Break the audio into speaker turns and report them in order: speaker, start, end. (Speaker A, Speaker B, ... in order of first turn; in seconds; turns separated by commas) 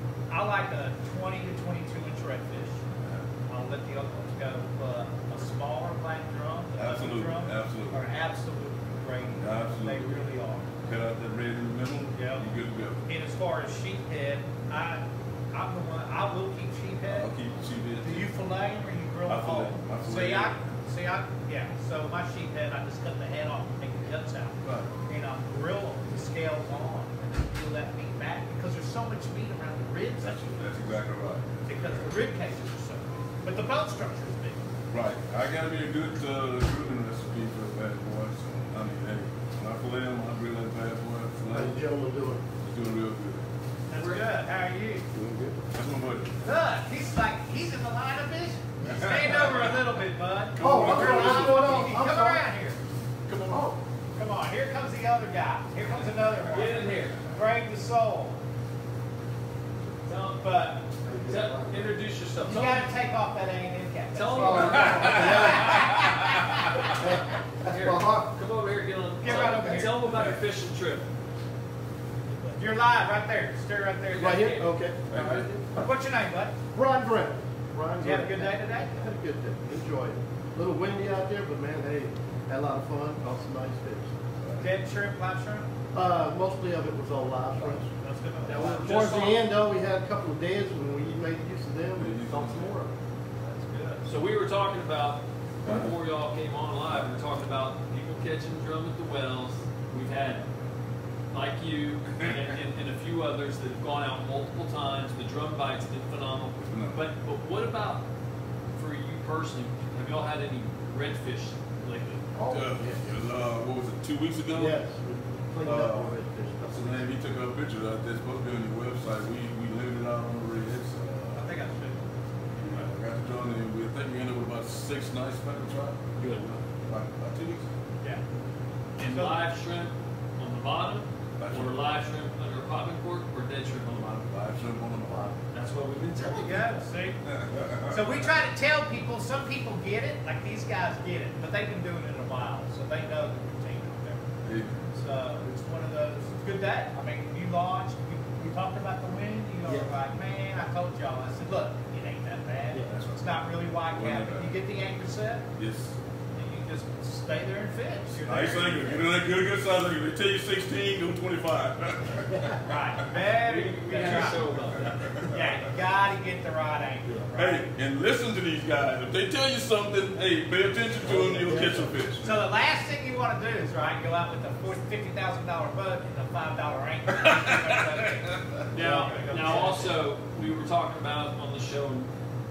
Speaker A: 0.3-2.8, Speaker A: 3.5-10.7, Speaker B: 6.8-8.0, Speaker B: 9.3-10.2, Speaker B: 10.8-13.0, Speaker A: 12.1-12.5, Speaker A: 13.1-17.3, Speaker B: 17.1-18.3, Speaker A: 18.0-30.7, Speaker B: 19.3-20.6, Speaker B: 24.6-24.9, Speaker B: 30.2-32.0, Speaker A: 31.7-34.7, Speaker B: 34.9-41.8, Speaker C: 41.5-42.5, Speaker B: 42.6-43.4, Speaker A: 43.9-45.1, Speaker C: 45.1-45.6, Speaker B: 45.7-46.4, Speaker A: 46.4-52.8, Speaker B: 48.8-49.5, Speaker B: 50.5-51.9, Speaker C: 50.6-52.4, Speaker B: 53.2-53.6, Speaker C: 53.5-53.8, Speaker A: 54.1-58.4, Speaker D: 56.5-57.2, Speaker D: 60.0-60.5, Speaker A: 60.4-60.9, Speaker C: 61.0-61.9, Speaker D: 61.2-62.9, Speaker A: 62.5-66.9, Speaker D: 64.1-66.1, Speaker C: 64.3-66.1, Speaker C: 66.9-68.3, Speaker D: 67.6-71.1, Speaker A: 69.2-70.0, Speaker A: 72.5-74.7, Speaker D: 74.1-75.6, Speaker C: 74.1-75.4, Speaker B: 75.1-75.5, Speaker A: 75.8-76.6, Speaker C: 76.7-84.2, Speaker A: 78.0-79.0, Speaker B: 84.4-84.7, Speaker A: 84.6-85.7, Speaker C: 85.9-87.9, Speaker A: 88.0-89.2, Speaker C: 88.4-92.9, Speaker D: 88.5-89.5, Speaker B: 92.0-92.8, Speaker A: 93.4-94.0, Speaker D: 94.0-100.5, Speaker D: 101.3-108.1, Speaker B: 106.7-107.0, Speaker D: 108.7-112.2, Speaker C: 112.3-113.0, Speaker B: 112.5-114.8, Speaker C: 114.5-117.1, Speaker B: 115.6-121.5, Speaker A: 121.3-122.1, Speaker B: 122.6-126.1, Speaker D: 126.2-126.6, Speaker B: 126.8-127.7, Speaker D: 129.0-134.3, Speaker A: 129.0-129.4, Speaker B: 131.4-131.8, Speaker B: 134.3-135.3, Speaker D: 135.5-136.8, Speaker A: 136.3-137.2, Speaker B: 137.2-138.0, Speaker A: 137.9-144.3, Speaker B: 144.4-144.8, Speaker A: 144.9-155.5, Speaker C: 149.6-149.9, Speaker C: 152.7-153.1, Speaker B: 153.9-154.6, Speaker B: 155.6-156.0, Speaker A: 156.3-159.1, Speaker B: 158.2-162.7, Speaker A: 162.7-164.5, Speaker D: 163.4-165.2, Speaker B: 164.8-165.3, Speaker A: 165.2-167.7, Speaker C: 167.1-167.3, Speaker B: 167.3-172.4, Speaker C: 171.0-172.1, Speaker A: 172.2-179.9, Speaker D: 178.7-182.1, Speaker C: 178.8-179.8